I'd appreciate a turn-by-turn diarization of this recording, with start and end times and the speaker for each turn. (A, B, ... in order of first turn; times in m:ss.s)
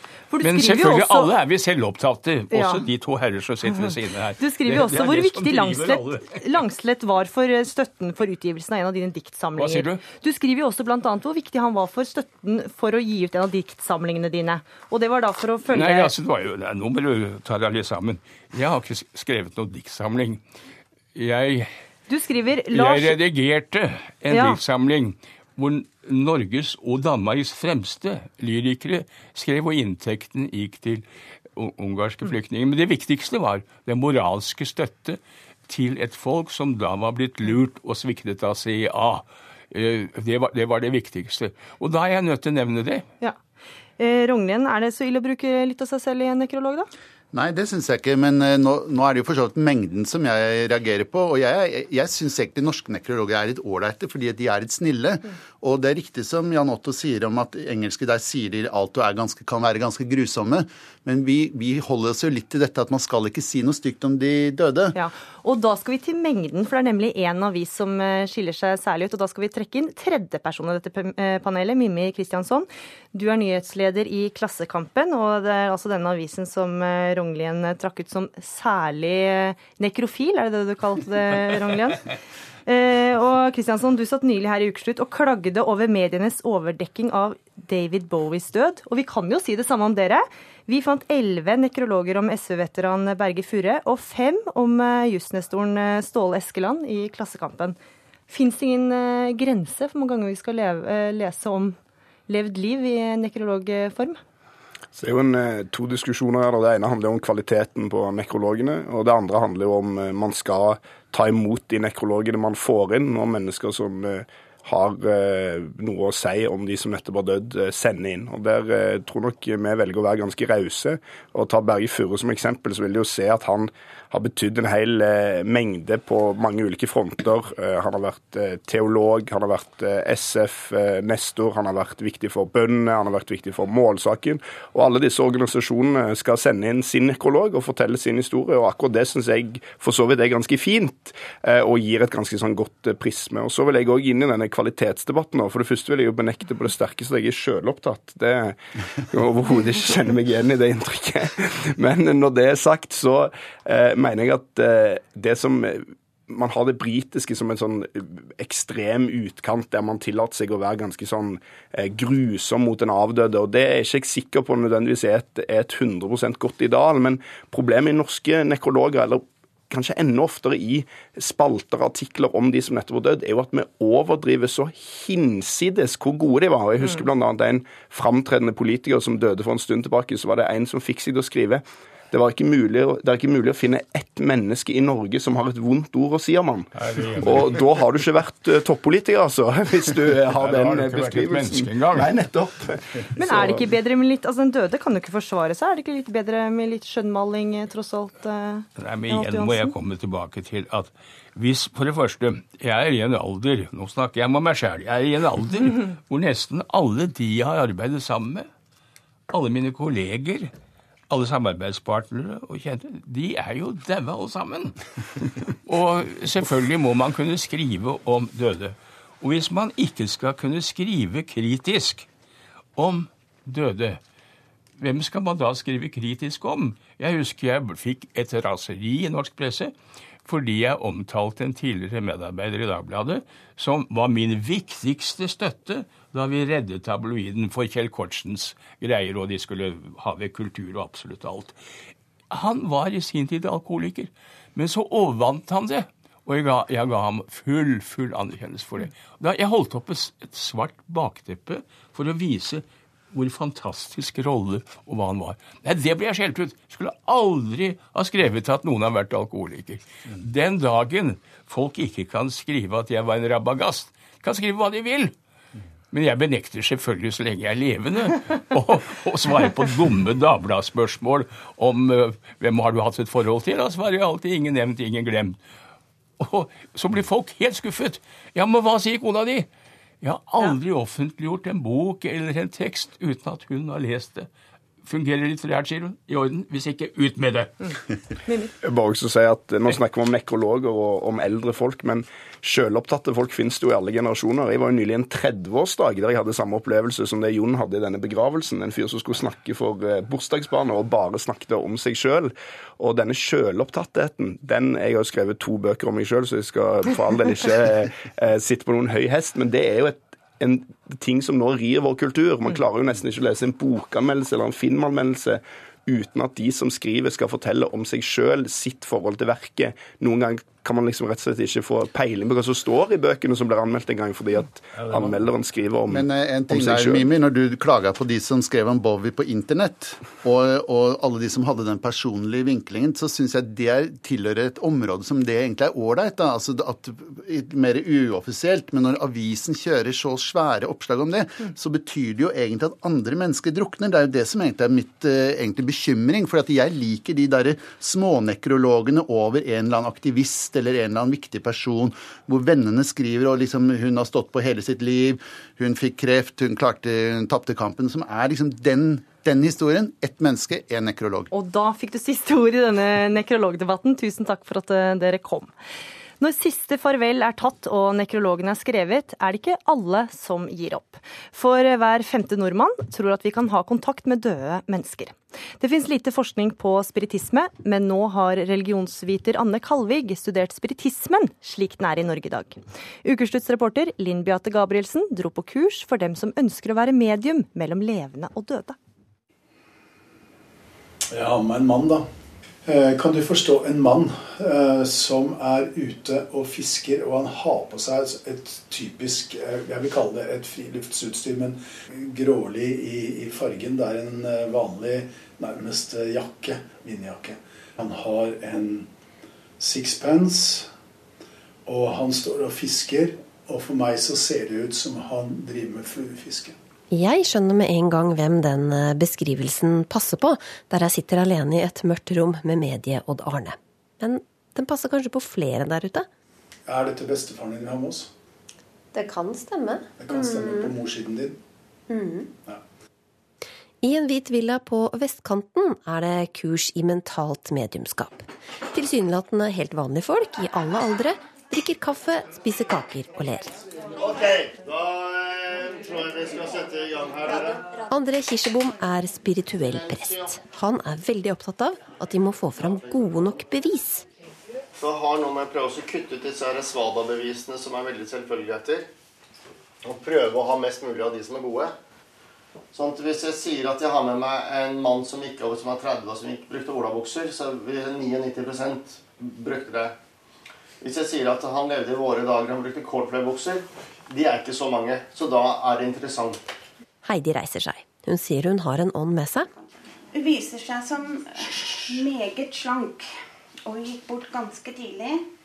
0:00.3-0:01.3 A
0:00.4-0:06.4 B
0:02.5-0:02.8 A
0:03.7-0:16.1 A
0:09.6-0:10.0 B
0:15.7-0:20.4 B
0:21.1-0:21.7 B
0:22.1-0:23.2 A
0:22.7-0:31.0 B
0:24.3-0:24.6 A
0:31.6-0:43.0 B
0:44.0-0:46.9 A
0:47.3-1:05.0 C
1:04.9-1:22.0 A
1:22.6-1:37.8 A
1:38.3-1:41.8 A
1:42.3-1:44.2 A
1:44.9-3:13.6 D
3:06.8-3:07.6 B
3:10.3-3:12.1 B
3:13.2-3:19.7 A
3:18.8-3:28.5 B
3:29.3-3:30.5 B
3:31.1-3:42.1 B
3:42.8-3:44.0 B
3:44.8-3:49.7 B
3:50.2-4:01.6 B
4:02.3-4:25.1 B
4:25.9-4:35.4 B
4:36.2-4:39.5 B
4:40.0-4:44.3 B
4:44.8-4:47.5 B
4:48.3-4:48.5 A
4:48.6-5:27.1 D
5:24.9-5:25.2 B
5:25.9-6:01.3 C
6:01.3-6:05.5 A
6:06.2-6:28.8 A
6:31.1-6:32.0 E
6:32.7-6:48.8 E
6:49.6-6:50.7 E
6:51.7-6:56.5 E
6:56.9-7:06.1 F
7:06.7-7:08.1 E
7:08.9-7:10.8 F
7:10.0-7:11.3 E
7:11.9-7:12.3 F
7:13.8-7:23.5 F
7:24.0-7:27.6 G
7:27.9-7:34.0 F
7:29.6-7:30.3 G
7:32.6-7:33.0 G
7:34.8-7:38.9 G
7:39.8-7:41.7 G
7:42.7-7:49.9 G
7:50.8-7:56.4 G
7:57.0-7:59.5 F
7:59.6-8:03.0 H
8:03.6-8:05.2 H